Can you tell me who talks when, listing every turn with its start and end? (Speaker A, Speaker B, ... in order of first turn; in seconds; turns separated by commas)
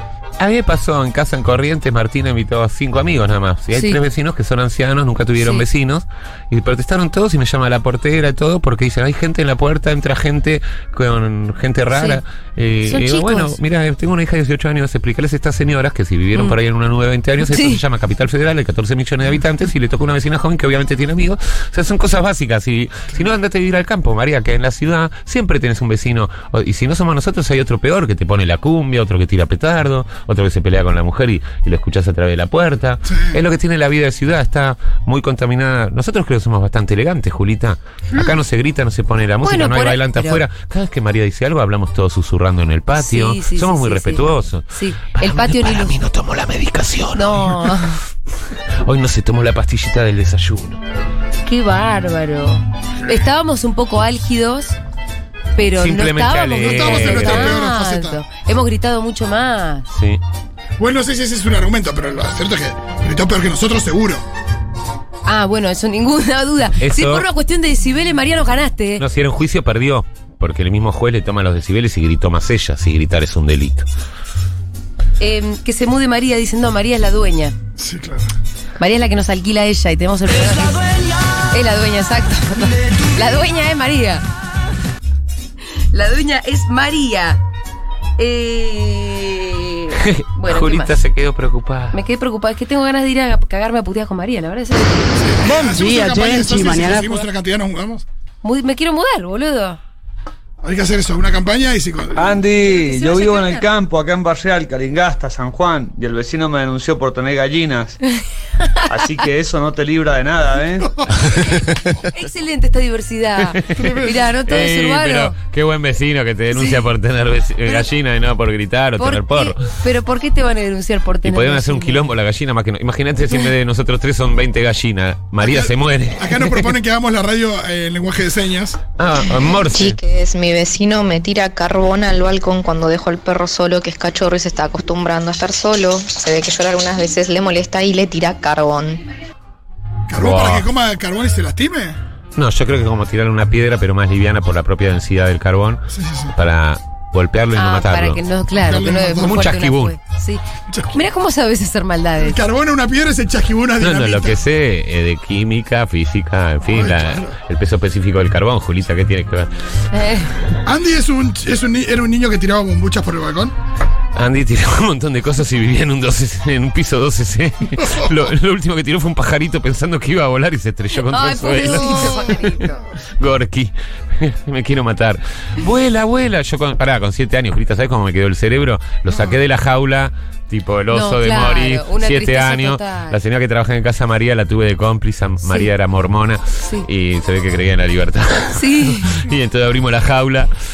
Speaker A: 0.4-48.0, Speaker B: 3.7-4.0, Speaker B: 5.4-5.6, Speaker B: 11.9-12.2, Speaker B: 12.9-13.6, Speaker B: 17.5-17.8, Speaker C: 33.1-33.4, Speaker B: 39.4-40.4, Speaker B: 43.0-46.0, Speaker B: 47.1-48.0, Speaker A: 48.8-50.8, Speaker B: 51.4-54.8, Speaker B: 55.6-59.9, Speaker A: 55.8-57.6, Speaker C: 56.6-58.2, Speaker A: 59.9-60.2, Speaker C: 60.8-64.2, Speaker B: 65.3-69.0, Speaker A: 66.8-67.3, Speaker A: 69.0-73.9, Speaker B: 75.2-77.5, Speaker C: 77.8-78.3, Speaker B: 78.8-84.2, Speaker B: 85.9-87.4, Speaker B: 88.2-90.9, Speaker A: 89.9-92.0, Speaker B: 91.9-95.4, Speaker C: 95.2-98.0, Speaker B: 98.4-99.8, Speaker C: 100.6-102.4, Speaker D: 102.2-108.0, Speaker B: 102.6-103.6, Speaker D: 108.9-111.0, Speaker B: 111.3-115.3, Speaker A: 113.6-114.0, Speaker A: 114.5-119.6, Speaker B: 116.5-116.8, Speaker B: 119.0-122.0, Speaker A: 121.2-126.7, Speaker C: 125.4-128.8, Speaker A: 129.0-130.0, Speaker E: 129.7-139.0, Speaker C: 140.1-142.0, Speaker A: 140.2-140.6, Speaker A: 142.4-148.2, Speaker C: 145.9-146.3, Speaker B: 147.6-152.4, Speaker C: 148.6-149.5, Speaker A: 149.2-149.9, Speaker C: 150.7-151.0, Speaker C: 152.2-154.4, Speaker A: 153.8-159.5, Speaker C: 156.7-157.4, Speaker B: 159.9-160.3, Speaker C: 160.6-163.6, Speaker A: 164.1-172.5, Speaker B: 170.9-172.8, Speaker C: 171.7-172.4, Speaker A: 173.2-190.5, Speaker C: 179.1-179.3, Speaker B: 180.9-183.2, Speaker B: 185.4-185.7, Speaker B: 188.6-189.3